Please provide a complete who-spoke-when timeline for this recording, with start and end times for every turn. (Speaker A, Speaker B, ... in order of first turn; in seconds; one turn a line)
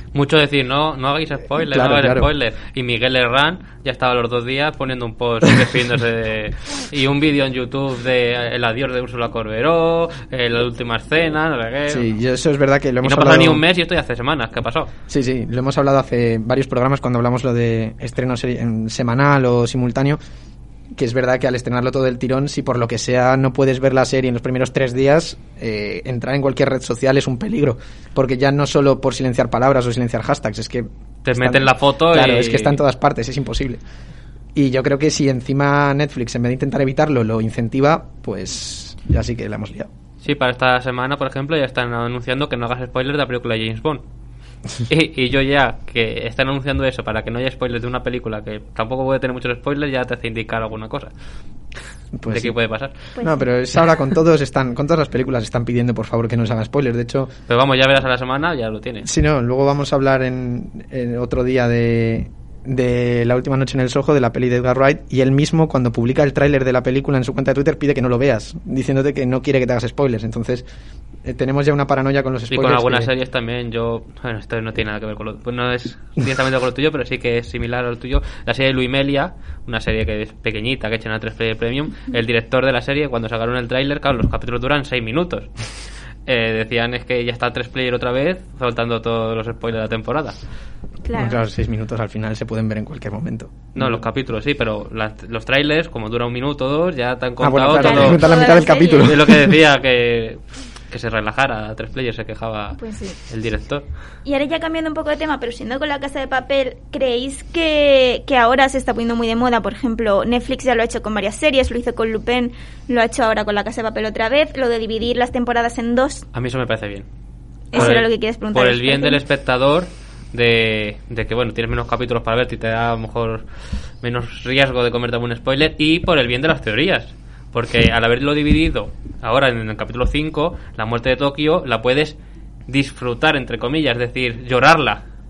Speaker A: 0.1-12.1
Speaker B: 1.7-2.3
Speaker B: 11.9-13.6
Speaker A: 13.0-14.9
Speaker B: 15.1-20.2
Speaker B: 20.9-33.8
Speaker A: 31.2-32.8
Speaker B: 34.5-39.9
Speaker A: 40.2-44.0
Speaker A: 44.9-51.1
Speaker B: 52.1-52.5
Speaker A: 52.3-53.0
Speaker B: 53.2-57.3
Speaker A: 57.5-59.1
Speaker B: 59.0-70.7
Speaker B: 71.2-73.1
Speaker A: 72.5-85.5
Speaker A: 86.2-90.3
Speaker C: 91.0-91.4
Speaker B: 91.1-94.0
Speaker A: 93.7-103.8
Speaker B: 97.4-99.6
Speaker C: 97.7-99.1
Speaker C: 102.8-103.2
Speaker C: 104.2-116.2
Speaker A: 116.3-117.0
Speaker C: 117.7-119.2
Speaker A: 117.7-123.5
Speaker A: 124.0-132.2
Speaker A: 132.7-135.0